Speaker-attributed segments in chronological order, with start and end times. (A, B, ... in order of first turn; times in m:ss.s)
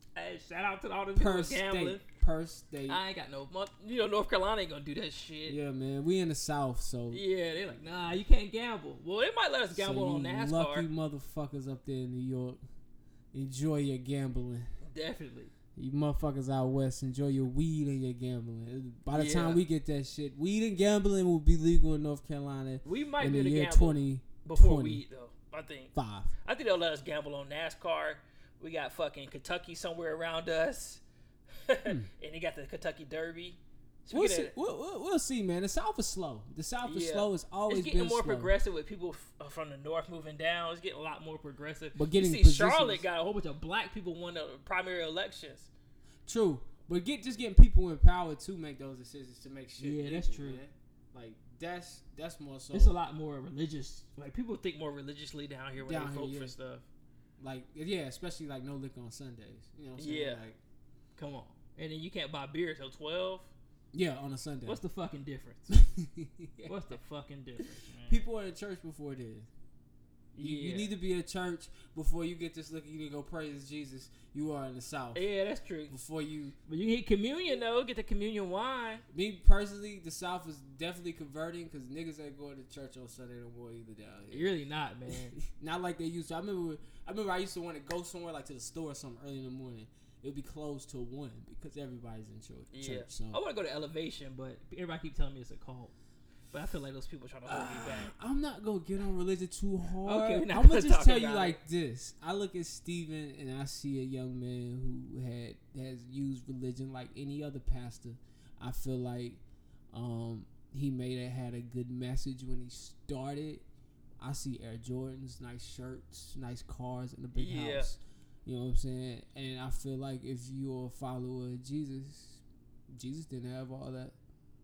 0:00.2-0:02.0 A
0:01.2-0:03.0 B
0:02.9-0:05.6 A
0:05.5-0:07.2 B
0:07.1-0:10.9 A
0:09.7-0:12.6 B
0:13.3-0:14.7 B
0:14.8-0:15.5 A
0:15.8-0:25.0 B
0:19.1-0:19.6 A
0:22.8-0:31.0 A
0:25.9-0:26.3 B
0:31.6-0:34.5 A
0:34.1-0:38.5 B
0:36.8-0:45.7 A
0:42.0-0:43.1 B
0:46.3-0:53.0 B
0:49.8-0:50.6 A
0:52.7-0:56.8 A
0:55.8-0:56.6 B
0:57.4-1:00.6 B
1:00.0-1:00.4 A
1:01.2-1:03.5 A
1:03.9-1:04.8 B
1:04.6-1:05.8 A
1:05.7-1:06.8 B
1:06.7-1:08.3 A
1:08.1-1:09.5 B
1:10.4-1:11.0 A
1:10.4-1:15.3 B
1:15.1-1:16.0 A
1:15.9-1:16.6 B
1:16.7-1:19.0 A
1:19.1-1:24.5 B
1:24.3-1:25.4 A
1:25.4-1:33.4 B
1:32.7-1:35.9 A
1:36.5-1:38.1 A
1:37.5-1:49.4 B
1:40.0-1:41.6 A
1:49.9-1:53.6 B
1:54.2-2:04.2 B
1:57.3-1:57.9 A